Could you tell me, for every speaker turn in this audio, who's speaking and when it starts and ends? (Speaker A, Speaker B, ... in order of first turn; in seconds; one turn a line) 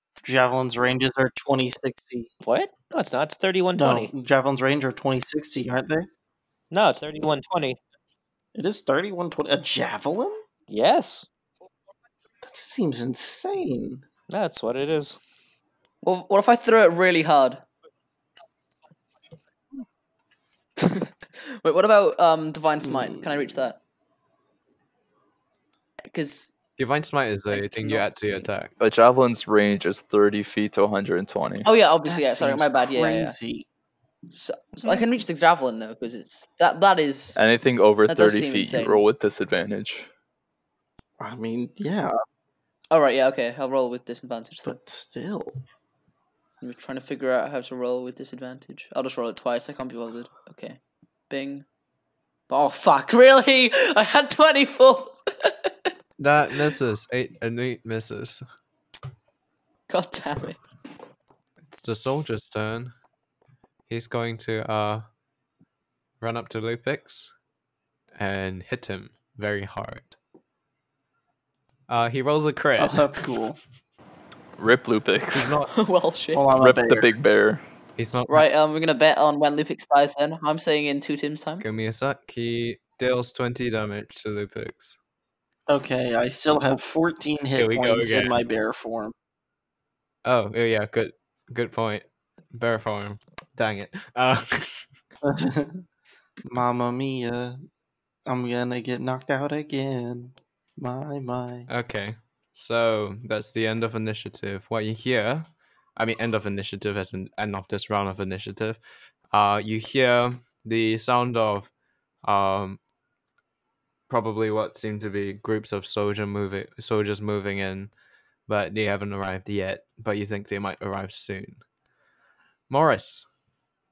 Speaker A: 0.2-2.3
Speaker B: 2.4-4.1
Speaker A: 3.8-6.1
Speaker B: 6.7-7.8
Speaker A: 8.5-10.4
Speaker B: 10.7-11.3
Speaker A: 12.4-14.0
Speaker B: 14.3-15.2
Speaker C: 16.0-17.6
Speaker C: 20.8-23.8
Speaker A: 22.8-23.5
Speaker C: 26.1-26.5
Speaker D: 26.8-28.7
Speaker C: 27.5-28.5
Speaker E: 28.8-31.7
Speaker C: 31.6-33.4
Speaker A: 32.0-33.7
Speaker C: 34.3-37.4
Speaker E: 37.4-40.1
Speaker C: 38.1-39.0
Speaker A: 41.2-42.2
Speaker C: 42.9-44.8
Speaker A: 44.6-45.6
Speaker C: 46.6-50.8
Speaker C: 51.3-51.6
Speaker C: 52.5-55.7
Speaker D: 56.2-58.4
Speaker C: 59.9-60.6
Speaker D: 61.7-62.9
Speaker D: 63.9-65.0
Speaker D: 66.2-67.3
Speaker D: 68.2-70.2
Speaker D: 71.9-73.1
Speaker A: 72.8-73.6
Speaker E: 74.6-75.5
Speaker D: 75.3-75.7
Speaker C: 75.7-76.5
Speaker A: 76.3-77.1
Speaker E: 76.5-77.6
Speaker D: 78.0-78.5
Speaker C: 78.3-81.7
Speaker D: 81.6-85.0
Speaker A: 85.7-89.1
Speaker D: 87.5-88.3
Speaker D: 90.2-94.9
Speaker A: 95.2-95.8
Speaker A: 96.4-97.6
Speaker A: 98.2-101.7
Speaker D: 101.7-108.8
Speaker D: 109.3-111.7
Speaker D: 112.2-112.8
Speaker D: 114.1-117.9
Speaker D: 118.5-121.6
Speaker D: 122.7-123.2